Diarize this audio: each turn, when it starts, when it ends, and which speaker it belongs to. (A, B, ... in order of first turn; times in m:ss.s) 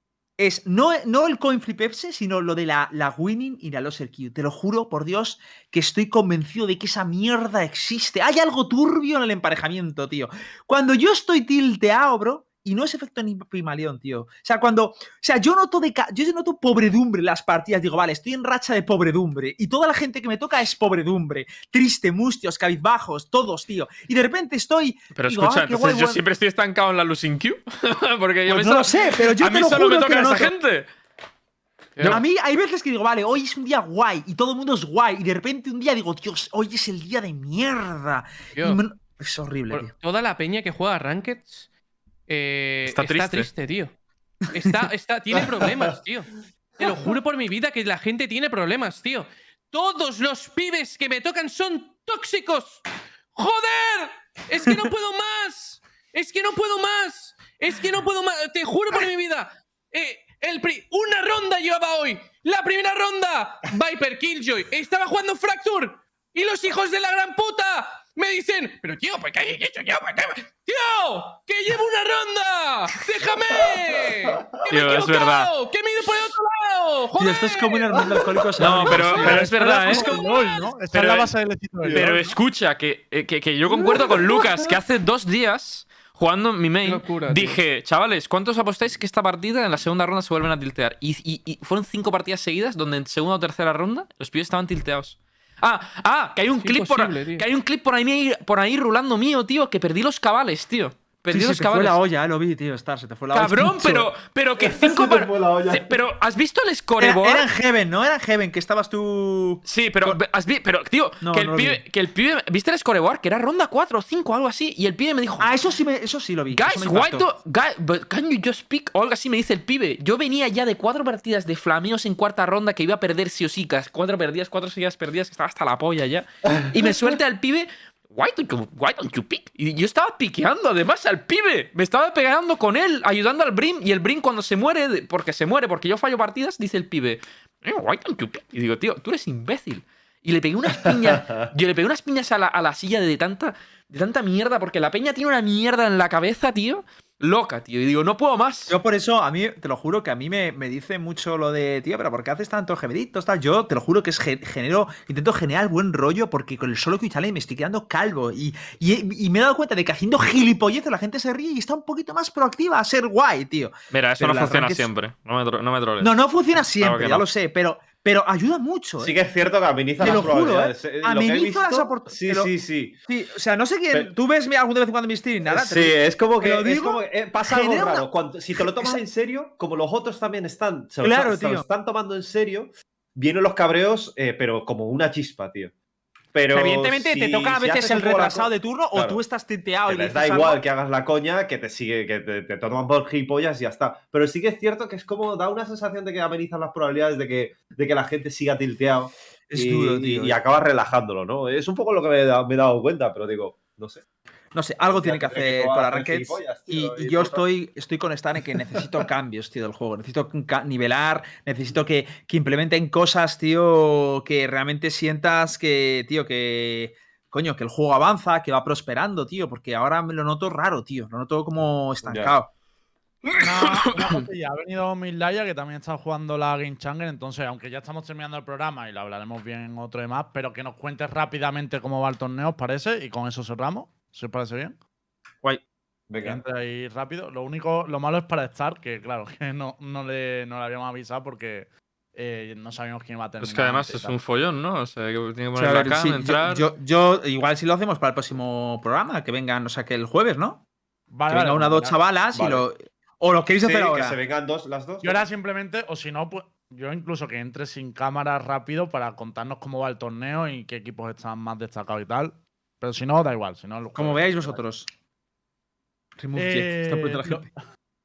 0:00.4-0:26.2 A
0:25.1-0:30.9 B
0:28.4-0:30.5 A
0:32.0-0:32.2 C
0:32.0-0:39.9 A
0:38.5-0:38.8 C
0:39.7-0:41.7 C
0:42.3-0:43.9 C
0:42.8-0:43.5 B
0:44.5-0:52.8 C
0:53.3-1:18.2 C
1:14.7-1:15.5 B
1:17.2-1:20.2 A
1:18.6-1:20.3 B
1:18.9-1:22.4 D
1:19.9-1:20.7 C
1:20.9-1:21.3 B
1:21.9-1:42.0 B
1:23.7-1:24.8 E
1:26.8-1:27.6 C
1:36.6-1:37.4 C
1:41.3-1:44.1 A
1:43.3-1:47.4 B
1:44.6-1:46.0 E
1:47.0-1:50.2 A
1:49.6-1:55.5 B
1:51.2-1:51.8 A
1:55.4-1:57.3 A
1:56.5-2:28.8 B
2:20.9-2:21.4 E
2:28.7-2:44.9 A
2:43.9-2:46.2 B
2:46.0-2:49.1 A
2:46.7-2:47.2 B
2:49.0-2:53.0 E
2:50.0-2:52.5 A
2:53.0-2:59.0 A
2:55.5-3:05.7 E
3:01.0-3:01.6 A
3:06.3-3:09.2 E
3:06.5-3:10.6 A
3:09.8-3:24.0 E
3:19.5-3:20.4 A
3:24.5-3:42.5 A
3:24.8-3:27.4 E
3:42.0-3:42.3 E
3:43.2-3:44.2 B
3:43.4-3:54.8 D
3:56.1-3:56.4 E
3:56.2-4:04.2 D
4:03.4-4:06.7 B
4:05.6-4:10.6 A
4:11.1-4:12.0 D
4:11.3-4:14.2 A
4:12.3-4:12.6 E
4:13.6-4:15.2 E
4:15.0-4:24.6 D
4:23.9-4:24.9 A
4:26.2-4:27.4 A
4:26.3-4:27.5 D